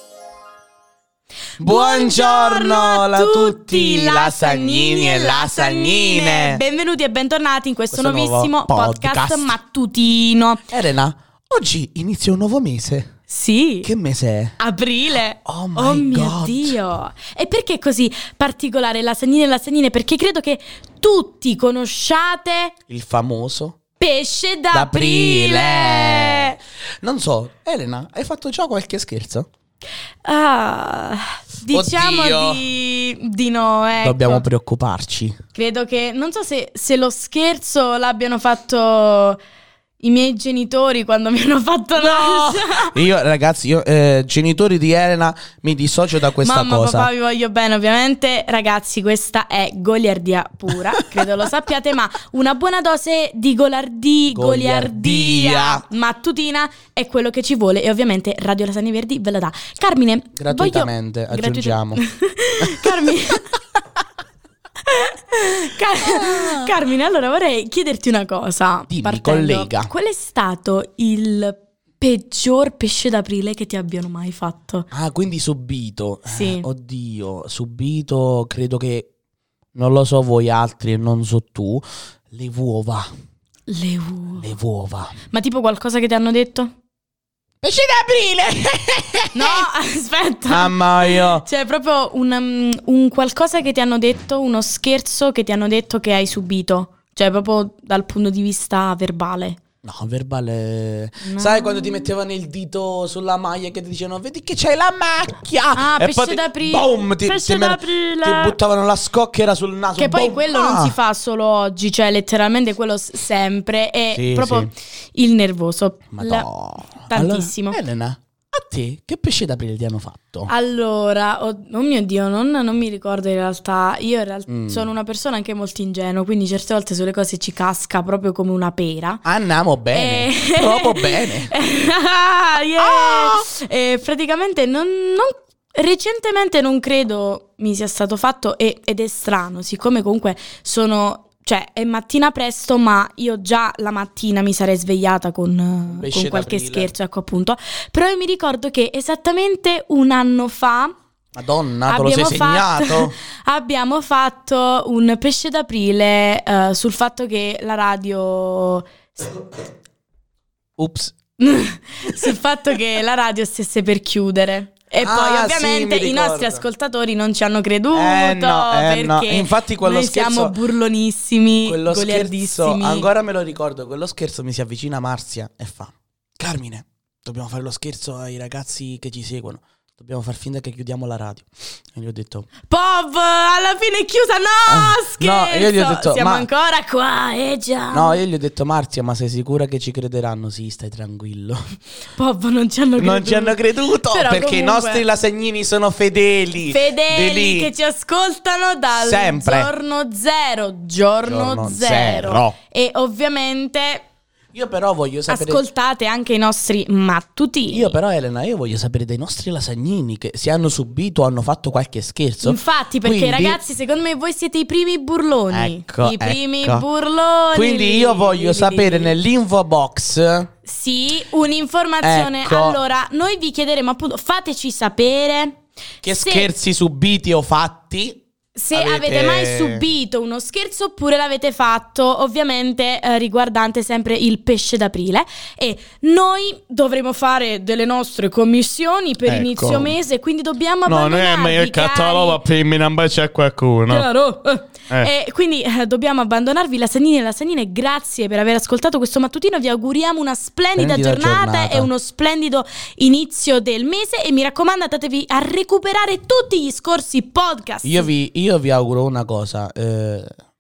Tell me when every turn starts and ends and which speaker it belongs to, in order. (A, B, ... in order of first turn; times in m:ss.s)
0:01.6-0:06.6 A
0:01.6-0:10.7 B
0:07.9-0:09.6 A
0:10.7-0:13.1 A
0:13.3-0:13.9 B
0:13.8-0:14.6 A
0:14.6-0:22.7 B
0:15.4-0:16.8 A
0:22.9-0:23.8 A
0:24.0-0:26.6 B
0:24.7-0:29.5 A
0:30.2-0:34.4 B
0:31.7-0:32.7 A
0:34.0-0:35.4 A
0:35.6-0:39.4 B
0:40.0-0:43.0 B
0:42.0-0:47.1 A
0:46.4-1:03.6 B
0:54.3-0:55.8 A
1:00.4-1:02.0 A
1:02.6-1:03.4 A
1:04.9-1:14.9 B
1:06.0-1:06.7 A
1:08.9-1:09.9 A
1:14.9-1:19.1 A
1:16.3-1:16.7 B
1:19.8-1:23.1 A
1:23.7-1:24.5 B
1:24.4-1:25.1 A
1:25.3-1:26.7 B
1:27.6-1:29.7 A
1:29.3-1:39.6 B
1:30.5-1:31.4 A
1:39.8-1:51.0 A
1:41.2-1:42.1 B
1:45.7-1:48.6 B
1:49.9-1:57.8 B
1:54.1-1:54.7 A
1:56.1-2:00.5 A
2:00.5-2:09.2 B
2:04.5-2:04.9 A
2:09.2-2:11.5 A
2:09.9-2:30.9 B
2:12.8-2:13.5 A
2:25.9-2:26.9 A
2:31.4-2:33.2 A
2:31.9-2:39.4 B
2:40.8-2:41.2 A
2:41.4-2:53.1 B
2:45.0-2:46.6 A
2:47.9-2:50.6 A
2:51.6-3:02.5 A
3:02.7-3:08.2 B
3:04.7-3:06.5 A
3:07.9-3:11.6 A
3:12.2-3:15.0 B
3:13.0-3:17.7 A
3:16.7-3:24.0 B
3:18.9-3:19.7 A
3:21.2-3:22.6 A
3:24.5-3:25.6 A
3:25.3-3:28.0 B
3:27.7-3:33.6 A
3:32.4-3:39.2 B
3:35.5-3:36.9 A
3:37.5-3:40.5 A
3:40.6-3:46.5 B
3:42.0-3:42.8 A
3:46.0-3:48.2 A
3:48.6-4:02.4 B
3:48.7-3:49.9 A
3:59.2-4:00.0 A
4:00.8-4:04.1 A
4:03.9-4:18.1 B
4:10.8-4:11.9 A
4:17.8-4:20.3 A